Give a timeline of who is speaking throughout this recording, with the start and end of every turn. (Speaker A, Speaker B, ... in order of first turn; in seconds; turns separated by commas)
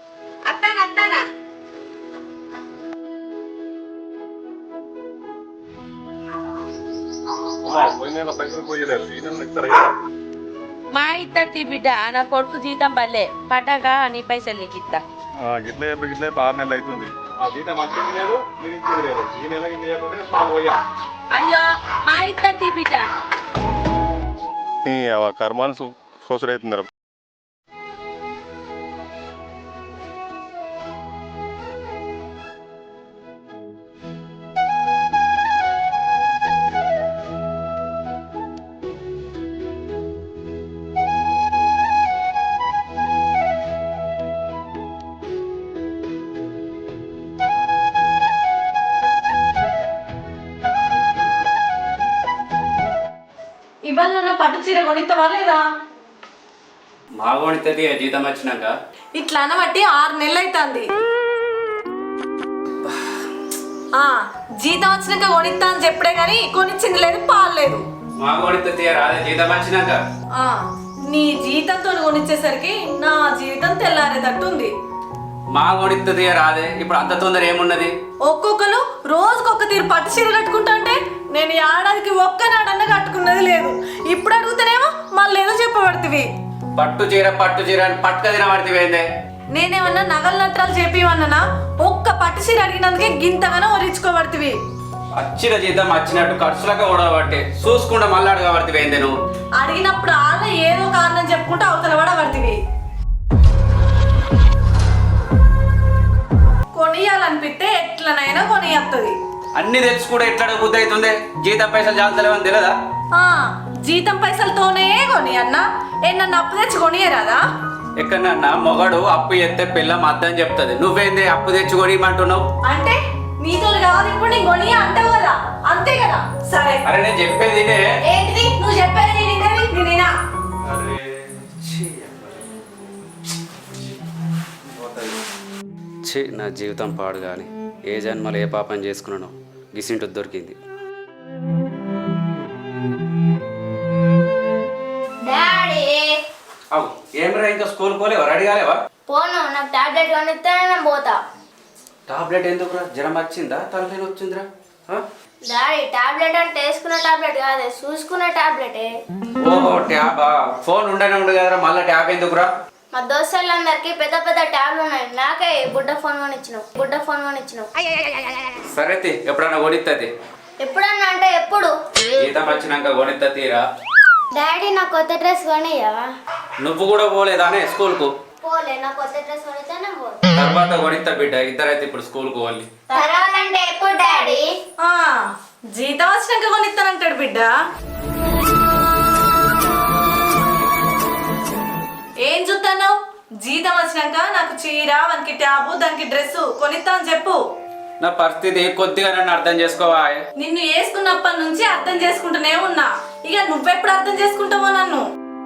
Speaker A: 0.5-1.2, Speaker B: 7.7-9.8, Speaker A: 10.9-15.0, Speaker B: 15.5-20.7, Speaker A: 21.3-23.1, Speaker B: 24.9-25.9, Speaker B: 26.4-26.9, Speaker C: 53.9-55.6, Speaker D: 57.2-58.7, Speaker C: 59.1-60.9, Speaker C: 63.9-67.8, Speaker D: 68.2-70.0, Speaker C: 70.3-74.7, Speaker D: 75.5-77.9, Speaker C: 78.2-86.3, Speaker D: 86.7-89.0, Speaker C: 89.5-94.6, Speaker D: 95.1-99.1, Speaker C: 99.6-102.6, Speaker C: 106.7-109.2, Speaker D: 109.5-112.8, Speaker C: 113.1-117.4, Speaker D: 118.0-122.5, Speaker C: 122.6-126.8, Speaker D: 126.8-127.9, Speaker C: 128.0-130.1, Speaker D: 130.6-132.5, Speaker D: 134.7-135.2, Speaker D: 136.0-140.5, Speaker E: 145.2-146.2, Speaker D: 146.7-148.8, Speaker E: 149.1-151.2, Speaker D: 152.1-155.0, Speaker E: 155.5-158.9, Speaker D: 159.4-162.5, Speaker E: 162.9-167.7, Speaker D: 168.7-170.1, Speaker E: 170.6-171.7, Speaker D: 172.2-173.6, Speaker E: 174.3-176.1, Speaker D: 176.6-178.1, Speaker E: 178.4-180.2, Speaker D: 180.3-182.7, Speaker E: 182.9-184.5, Speaker C: 184.8-187.5, Speaker C: 192.2-197.4, Speaker D: 198.0-200.2, Speaker C: 200.4-205.0